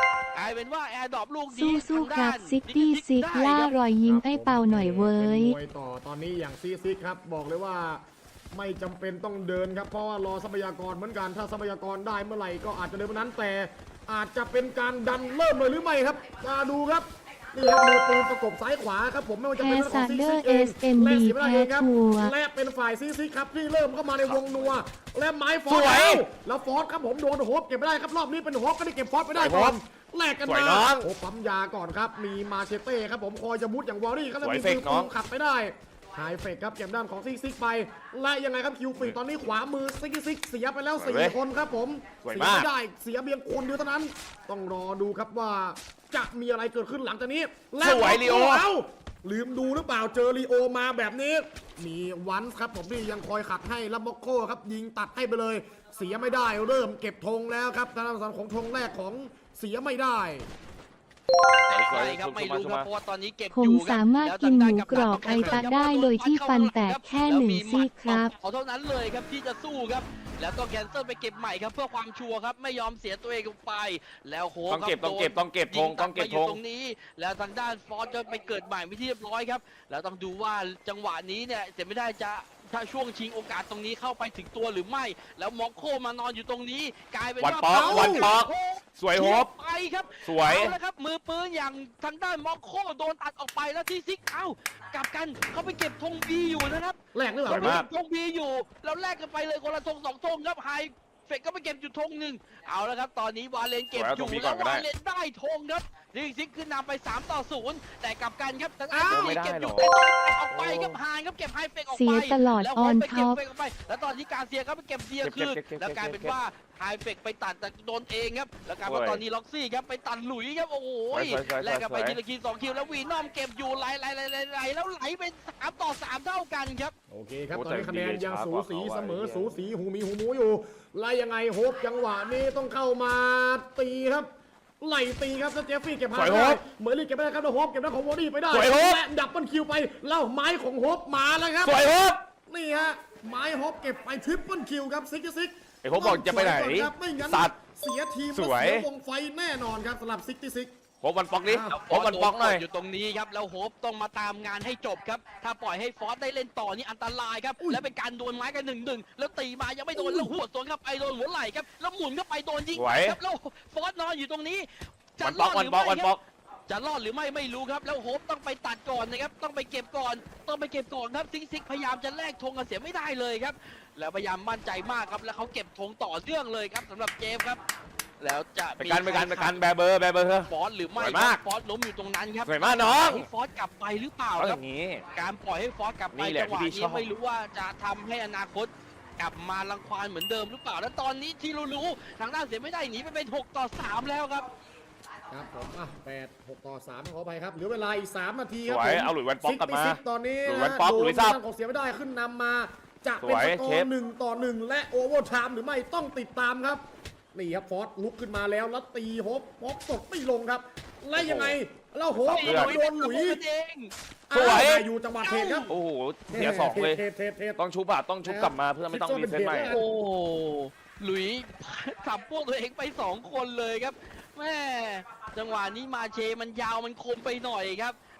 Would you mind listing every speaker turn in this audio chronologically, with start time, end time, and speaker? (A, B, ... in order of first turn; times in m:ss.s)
0:00.4-0:03.8 A
0:01.5-0:05.6 B
0:04.0-1:00.5 C
0:19.6-0:22.3 B
0:24.2-0:24.8 D
0:25.7-0:26.2 D
0:29.4-0:29.8 D
0:30.4-0:31.1 D
0:34.4-0:35.1 D
0:41.0-0:41.4 D
0:42.2-0:42.7 D
0:47.8-0:48.7 D
1:01.7-2:06.9 A
1:01.7-1:02.9 D
1:03.5-1:08.3 B
1:04.9-1:05.7 C
1:14.7-1:16.6 D
1:27.4-1:29.5 D
1:27.7-1:28.3 C
1:30.2-1:30.8 D
1:37.1-1:37.8 C
1:37.5-1:37.9 D
1:43.9-1:44.9 D
1:48.9-1:49.3 C
1:49.0-1:49.9 D
1:50.5-1:51.0 D
1:51.9-1:53.4 B
1:55.2-1:56.4 D
1:58.8-1:59.2 D
2:01.1-2:02.2 D
2:07.1-2:14.3 C
2:07.5-2:09.6 D
2:14.8-2:21.9 C
2:16.1-2:16.6 D
2:18.5-2:19.0 D
2:21.6-2:22.2 D
2:22.4-2:30.7 C
2:25.8-2:27.6 D
2:28.3-2:28.9 D
2:31.0-2:32.6 D
2:31.4-2:31.8 C
2:31.7-2:46.1 A
2:37.6-2:37.9 C
2:40.0-2:40.3 C
2:42.8-2:43.2 D
2:45.2-2:46.2 D
2:46.7-2:57.6 A
2:58.2-2:59.6 A
2:58.8-3:01.4 D
3:00.5-3:04.6 A
3:02.5-3:03.3 D
3:04.4-3:05.0 D
3:05.1-3:14.5 A
3:06.1-3:07.1 D
3:15.3-3:33.4 C
3:18.7-3:21.4 D
3:23.2-3:23.9 D
3:31.2-3:31.6 D
3:32.1-3:32.8 D
3:32.3-3:33.9 A
3:34.3-3:35.7 C
3:34.3-3:34.9 D
3:35.2-3:35.7 A
3:35.7-3:37.0 D
3:36.3-3:37.6 C
3:37.6-3:39.8 D
3:38.2-3:39.8 C
3:39.7-3:48.0 A